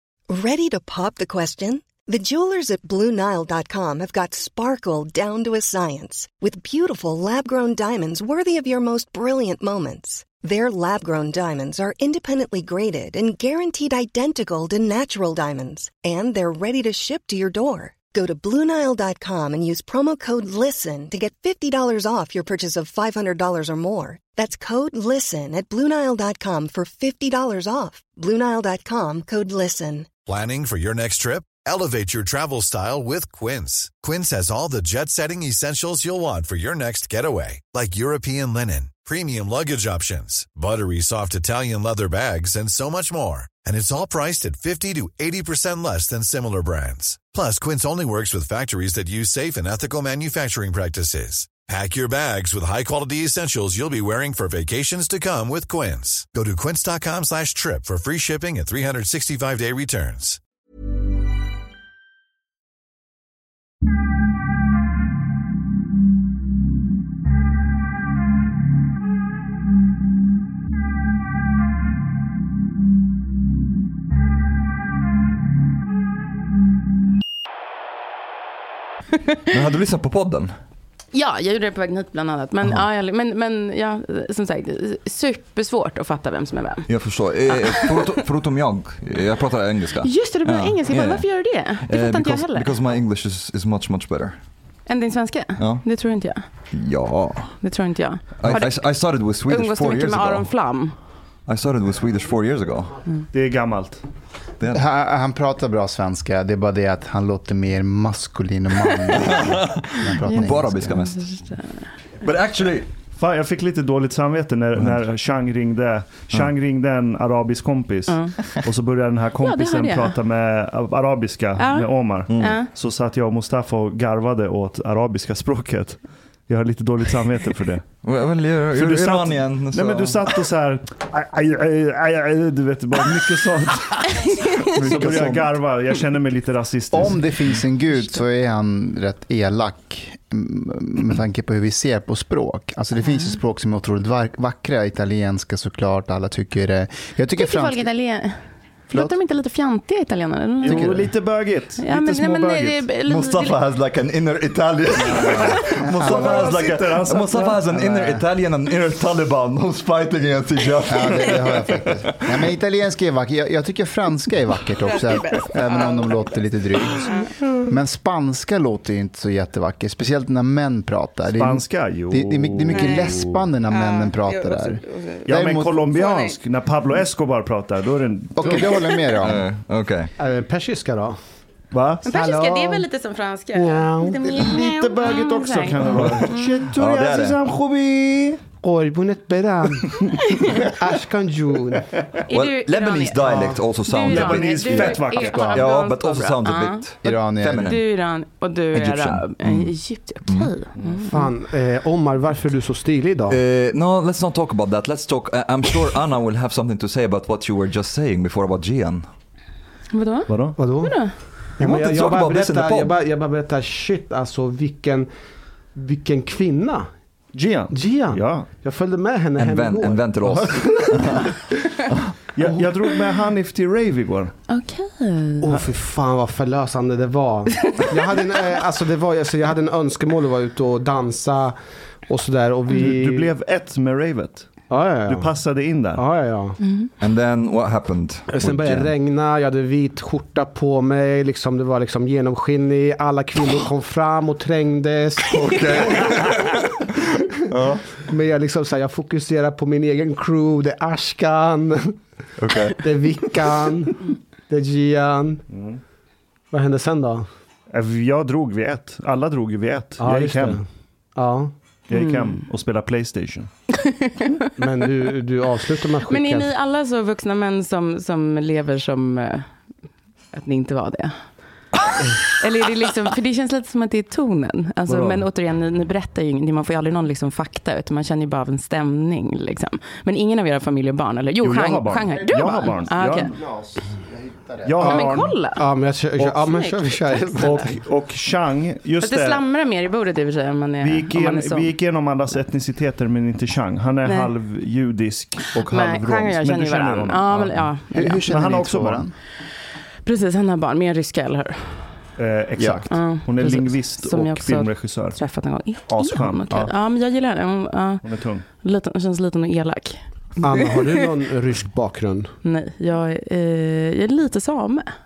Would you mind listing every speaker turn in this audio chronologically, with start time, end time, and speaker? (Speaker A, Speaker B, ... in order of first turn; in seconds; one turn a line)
Speaker A: 0.3-30.1
Speaker B: 30.3-60.4
Speaker C: 79.5-80.5
Speaker D: 81.1-86.9
Speaker C: 86.9-94.3
Speaker D: 87.5-88.2
Speaker D: 90.0-92.7
Speaker D: 94.9-96.4
Speaker C: 95.6-95.8
Speaker C: 96.7-97.5
Speaker D: 97.6-100.9
Speaker C: 98.4-100.5
Speaker C: 101.5-103.0
Speaker E: 103.3-104.0
Speaker F: 104.7-110.9
Speaker C: 109.2-111.2
Speaker D: 110.2-111.9
Speaker C: 112.2-112.9
Speaker E: 113.2-127.9
Speaker D: 118.1-118.3
Speaker D: 119.4-120.1
Speaker D: 121.6-122.7
Speaker C: 122.3-122.6
Speaker C: 128.0-130.3
Speaker E: 128.7-137.3
Speaker D: 134.2-134.7
Speaker C: 134.8-135.4
Speaker F: 136.9-147.9
Speaker D: 147.4-148.4
Speaker F: 148.9-149.2
Speaker D: 148.9-151.0
Speaker F: 150.6-151.1
Speaker E: 150.6-152.8
Speaker D: 151.8-153.6
Speaker C: 153.0-161.8
Speaker F: 155.1-156.5
Speaker E: 156.0-157.6
Speaker F: 157.7-158.2
Speaker F: 160.9-175.8
Speaker D: 164.8-166.3
Speaker D: 166.9-167.3
Speaker E: 171.3-173.4
Speaker D: 172.7-173.2
Speaker D: 173.7-175.3
Speaker E: 175.2-178.7
Speaker D: 175.9-176.3
Speaker F: 178.3-179.4
Speaker C: 179.2-180.1
Speaker G: 180.2-181.2
Speaker E: 181.7-182.0
Speaker D: 182.0-186.6
Speaker F: 182.2-182.7
Speaker G: 183.5-184.2
Speaker E: 184.3-188.4
Speaker C: 186.7-187.4
Speaker G: 188.6-190.0
Speaker D: 190.2-190.7
Speaker G: 190.6-191.9
Speaker D: 192.3-196.9
Speaker C: 192.3-197.9
Speaker E: 194.0-195.5
Speaker F: 197.0-197.8
Speaker D: 197.6-201.2
Speaker C: 198.7-200.5
Speaker G: 201.1-203.4
Speaker C: 203.3-209.1
Speaker D: 209.9-211.1
Speaker E: 210.3-210.6
Speaker G: 210.6-210.9
Speaker G: 211.5-215.1
Speaker C: 211.6-213.0
Speaker G: 215.7-216.9
Speaker E: 217.3-218.5
Speaker G: 217.7-221.4
Speaker C: 219.3-221.3
Speaker E: 222.3-224.3
Speaker D: 224.5-225.5
Speaker G: 225.4-231.6
Speaker G: 232.1-233.3
Speaker E: 232.7-236.0
Speaker G: 234.7-236.6
Speaker D: 236.6-236.9
Speaker C: 237.0-238.9
Speaker G: 238.3-246.2
Speaker C: 245.2-246.5
Speaker C: 247.5-247.9
Speaker G: 248.0-251.9
Speaker C: 252.4-253.3
Speaker G: 252.8-253.9
Speaker G: 254.5-255.4
Speaker E: 255.5-255.8
Speaker G: 256.5-257.3
Speaker E: 257.7-260.6
Speaker G: 260.0-261.5
Speaker E: 261.9-263.5
Speaker D: 261.9-262.4
Speaker D: 263.8-264.3
Speaker G: 264.6-266.5
Speaker D: 266.1-269.5
Speaker D: 270.3-271.1
Speaker D: 272.2-283.3
Speaker E: 274.9-275.2
Speaker E: 281.4-283.3
Speaker F: 283.3-284.8
Speaker E: 284.6-285.4
Speaker G: 284.8-287.8
Speaker D: 284.8-285.6
Speaker D: 286.3-287.6
Speaker E: 287.4-289.4
Speaker D: 289.0-291.7
Speaker E: 290.8-299.0
Speaker D: 295.6-298.2
Speaker F: 297.9-299.1
Speaker D: 300.0-301.9
Speaker E: 302.2-305.2
Speaker F: 302.6-302.8
Speaker D: 302.9-308.0
Speaker E: 305.9-306.5
Speaker E: 308.0-308.4
Speaker D: 308.6-311.0
Speaker G: 310.4-312.3
Speaker D: 312.4-314.9